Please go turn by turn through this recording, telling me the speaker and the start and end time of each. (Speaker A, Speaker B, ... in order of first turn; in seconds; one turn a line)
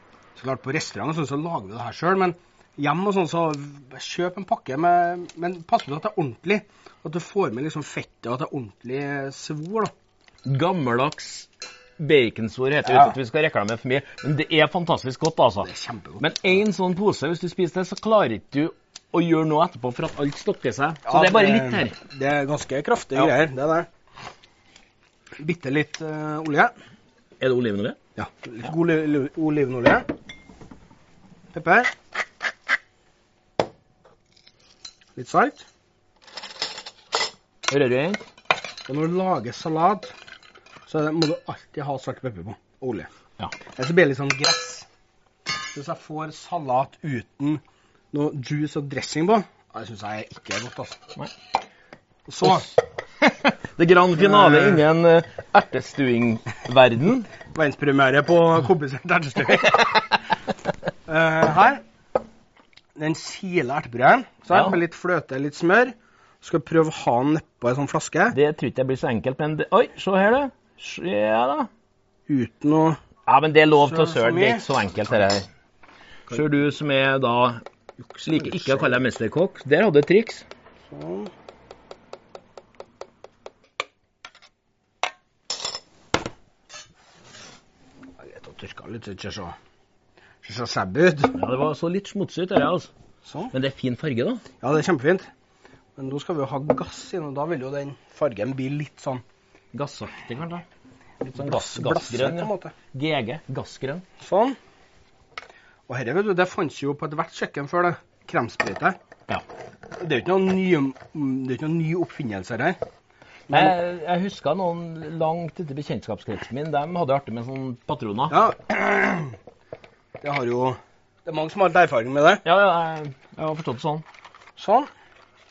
Speaker A: 0.4-9.9
Speaker B: 10.4-15.7
Speaker A: 12.9-13.1
Speaker A: 15.6-16.3
Speaker B: 16.2-21.9
Speaker A: 21.1-23.9
Speaker A: 25.4-26.7
Speaker B: 27.4-28.0
Speaker A: 28.2-30.1
Speaker A: 31.5-31.9
Speaker A: 35.2-35.6
Speaker B: 37.7-38.2
Speaker A: 38.9-40.1
Speaker A: 40.9-43.1
Speaker A: 43.8-44.9
Speaker A: 45.7-51.0
Speaker A: 52.3-52.7
Speaker B: 52.5-57.3
Speaker A: 54.2-54.8
Speaker A: 57.5-60.1
Speaker A: 61.1-61.8
Speaker A: 63.0-68.4
Speaker B: 68.3-71.7
Speaker A: 72.3-73.0
Speaker B: 73.3-75.5
Speaker A: 73.8-75.1
Speaker B: 76.3-77.6
Speaker A: 78.0-79.1
Speaker B: 78.2-80.4
Speaker A: 80.9-81.3
Speaker A: 88.2-89.5
Speaker A: 90.4-91.4
Speaker B: 91.3-92.9
Speaker A: 93.2-93.5
Speaker B: 93.5-94.4
Speaker A: 94.6-95.3
Speaker A: 96.0-99.2
Speaker B: 99.7-100.7
Speaker B: 101.2-104.0
Speaker A: 101.3-102.7
Speaker A: 104.2-104.6
Speaker A: 105.9-109.0
Speaker A: 110.0-112.8
Speaker A: 113.5-113.8
Speaker B: 113.5-118.4
Speaker A: 118.3-119.4
Speaker A: 120.2-122.5
Speaker B: 122.5-124.0
Speaker A: 124.6-124.9